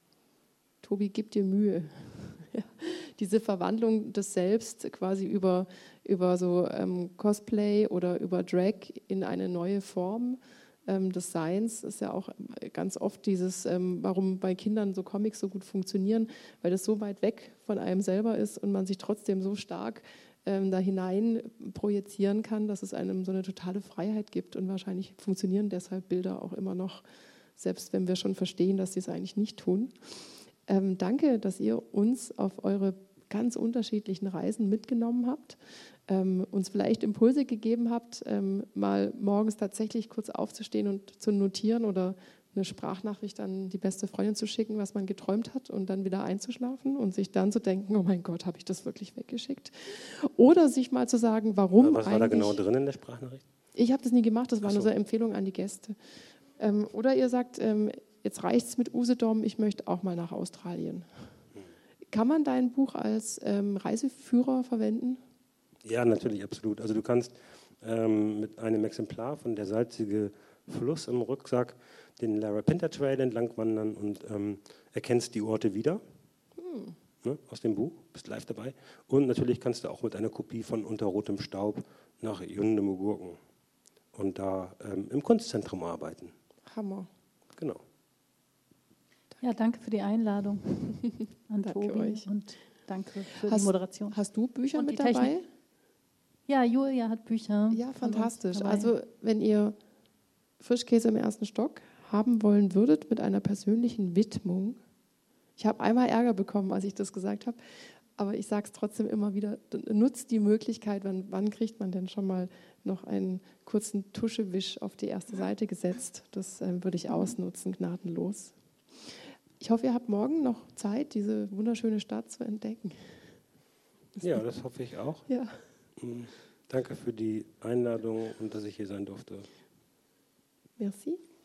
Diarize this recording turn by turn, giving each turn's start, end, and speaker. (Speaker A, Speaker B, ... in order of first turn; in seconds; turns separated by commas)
Speaker A: 0.8-27.0, Speaker A: 27.6-30.1, Speaker A: 30.6-52.6, Speaker B: 51.8-53.4, Speaker A: 53.8-56.0, Speaker B: 54.6-54.9, Speaker A: 56.6-61.1, Speaker A: 62.1-65.2, Speaker B: 65.8-76.0, Speaker A: 76.6-77.0, Speaker B: 77.2-83.4, Speaker B: 84.1-86.3, Speaker A: 86.7-87.1, Speaker B: 87.6-87.8, Speaker C: 89.4-94.2, Speaker A: 91.6-92.3, Speaker A: 93.5-95.5, Speaker C: 94.8-95.3, Speaker C: 96.5-98.9, Speaker A: 97.7-99.8, Speaker A: 100.6-104.8, Speaker A: 105.6-123.3, Speaker B: 124.2-125.3, Speaker A: 125.3-125.6, Speaker B: 126.0-129.5, Speaker A: 130.8-131.2